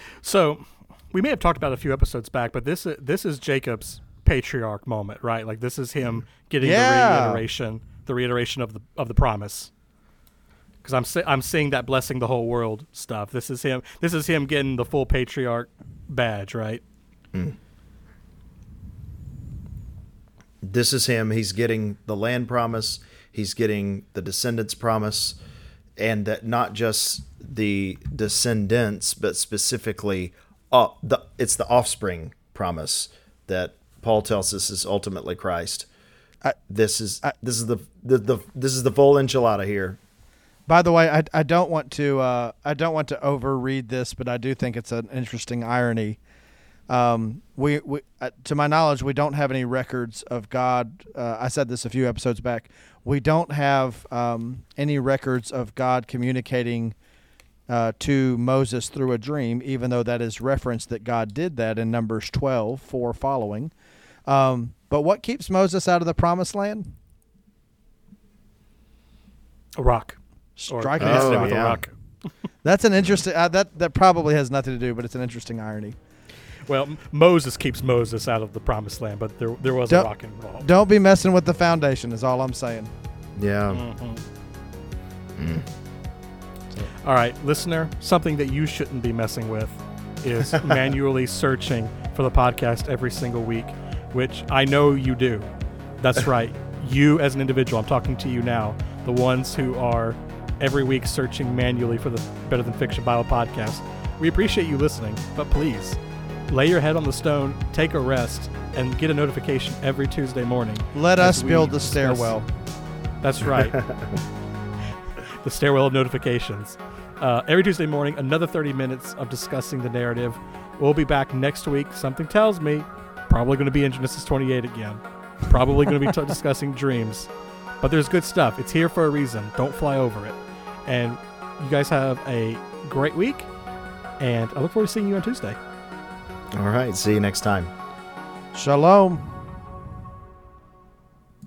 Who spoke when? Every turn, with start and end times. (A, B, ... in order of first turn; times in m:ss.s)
0:00.2-0:09.7 A
0:06.6-0:07.4 B
0:10.8-0:16.8 A
0:20.6-0:25.4 C
0:26.0-0:35.9 C
0:36.7-0:40.0 C
0:40.7-0:46.2 B
0:46.9-0:56.9 B
0:57.7-1:03.7 B
1:04.3-1:06.9 B
1:09.8-1:11.9 A
1:10.6-1:11.8 B
1:11.0-1:11.8 C
1:12.6-1:16.0 B
1:16.7-1:20.7 A
1:19.9-1:22.9 B
1:23.4-1:23.8 C
1:23.7-1:24.2 A
1:25.4-1:25.7 C
1:27.0-1:35.4 A
1:36.0-1:52.4 A
1:50.9-1:52.4 B
1:53.2-1:53.8 A
1:53.5-1:54.1 C
1:55.4-2:07.3 A
2:07.8-2:13.5 A
2:14.2-2:15.6 A
2:16.5-2:17.7 C
2:18.5-2:19.3 B